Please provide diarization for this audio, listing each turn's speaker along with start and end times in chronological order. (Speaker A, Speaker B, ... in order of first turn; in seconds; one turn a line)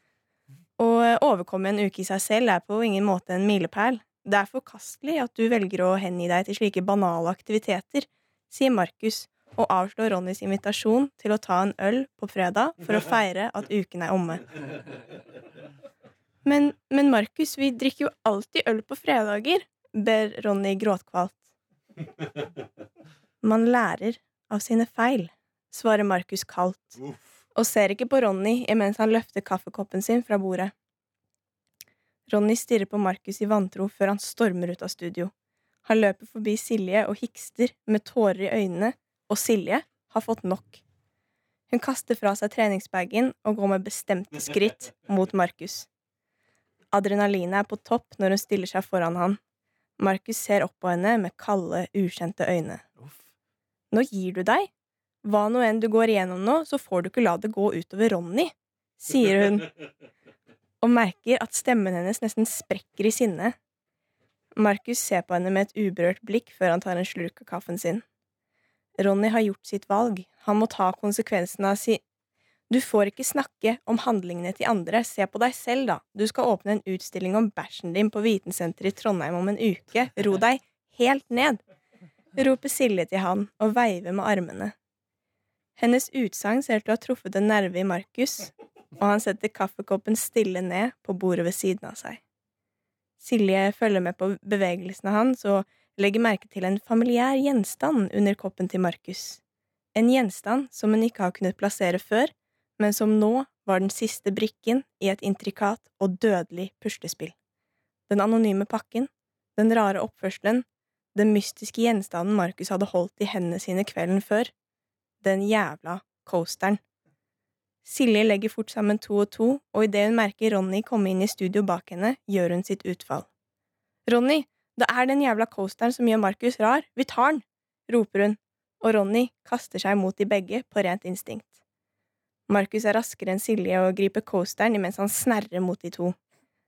Speaker A: 0.8-14.7
Speaker A: 16.4-21.4
Speaker A: 23.4-27.0
Speaker A: 27.6-30.7
Speaker A: 32.3-35.3
Speaker A: 35.9-40.8
Speaker A: 41.7-45.9
Speaker A: 46.9-49.4
Speaker A: 50.0-52.8
Speaker A: 53.9-54.7
Speaker A: 55.2-59.8
Speaker A: 60.8-63.6
Speaker A: 64.6-68.0
Speaker A: 69.0-72.0
Speaker A: 72.7-81.6
Speaker A: 82.3-84.7
Speaker A: 85.8-92.2
Speaker A: 93.2-99.4
Speaker A: 100.0-107.3
Speaker A: 108.1-114.5
Speaker A: 115.2-116.8
Speaker A: 117.8-123.3
Speaker A: 124.1-131.6
Speaker A: 132.5-136.2